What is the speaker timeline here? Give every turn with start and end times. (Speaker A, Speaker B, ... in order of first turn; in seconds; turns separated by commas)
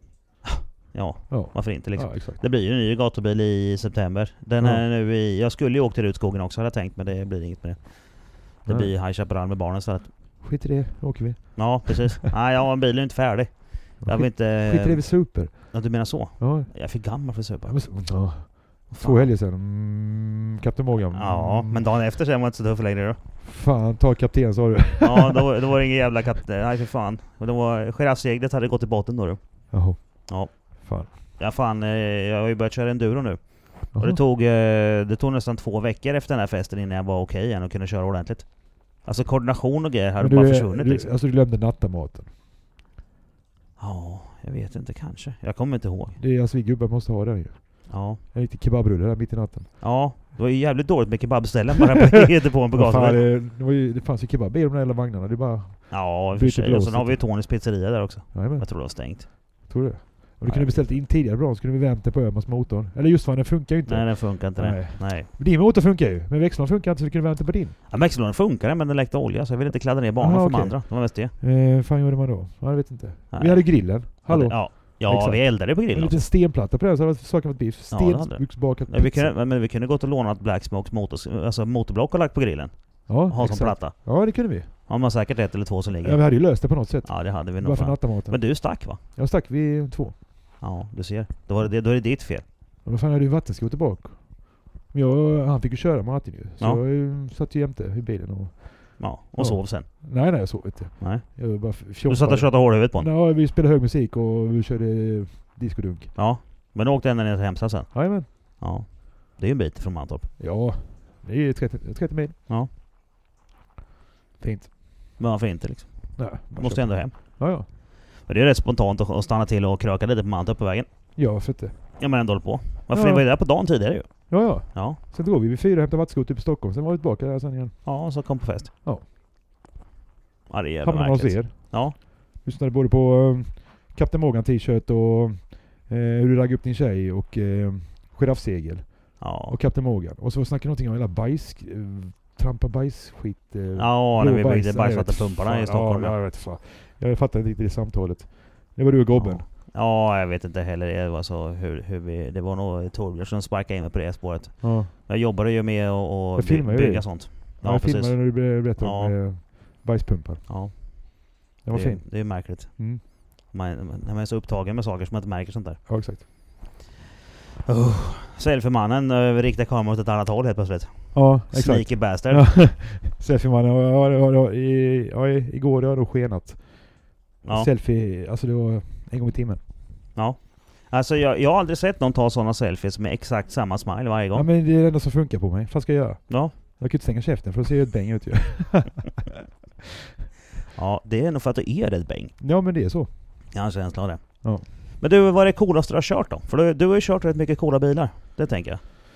Speaker A: 0.4-10.1, Speaker B: 1.3-2.4, Speaker B: 4.6-4.8, Speaker B: 8.7-8.9, Speaker B: 10.4-12.1, Speaker A: 11.5-19.3, Speaker B: 14.0-21.8, Speaker A: 21.1-23.2, Speaker B: 23.4-25.5, Speaker A: 25.0-41.1, Speaker B: 29.7-31.1, Speaker B: 33.9-34.2, Speaker B: 40.2-42.3, Speaker A: 43.8-46.2, Speaker B: 46.1-49.8, Speaker A: 47.9-48.2, Speaker A: 49.8-53.2, Speaker B: 52.7-57.7, Speaker A: 55.9-59.7, Speaker B: 58.3-67.8, Speaker A: 60.4-60.9, Speaker A: 63.9-65.3, Speaker A: 67.9-71.3, Speaker B: 70.2-79.3, Speaker A: 73.3-76.2, Speaker A: 77.9-89.0, Speaker B: 83.1-84.7, Speaker B: 86.0-90.2, Speaker A: 90.6-92.5, Speaker B: 92.8-106.2, Speaker A: 99.0-100.4, Speaker A: 101.0-103.1, Speaker A: 106.1-110.3, Speaker B: 107.9-108.3, Speaker B: 110.4-112.3, Speaker B: 114.4-114.7, Speaker A: 115.2-121.2, Speaker B: 116.2-117.7, Speaker B: 121.1-122.2, Speaker A: 122.0-125.0, Speaker B: 122.9-123.3, Speaker B: 124.3-128.3, Speaker A: 127.8-128.7, Speaker A: 130.5-131.9, Speaker B: 130.8-149.4, Speaker A: 139.2-139.6, Speaker A: 143.7-146.2, Speaker A: 149.1-159.2, Speaker B: 154.6-154.9, Speaker B: 156.3-160.8, Speaker A: 160.5-166.0, Speaker B: 161.6-163.0, Speaker B: 165.9-166.2, Speaker A: 167.7-172.6, Speaker B: 171.1-179.6, Speaker A: 177.4-177.7, Speaker A: 180.1-184.4, Speaker B: 184.3-189.2, Speaker A: 186.3-186.6, Speaker A: 190.7-192.4, Speaker B: 192.4-193.1, Speaker A: 193.5-198.8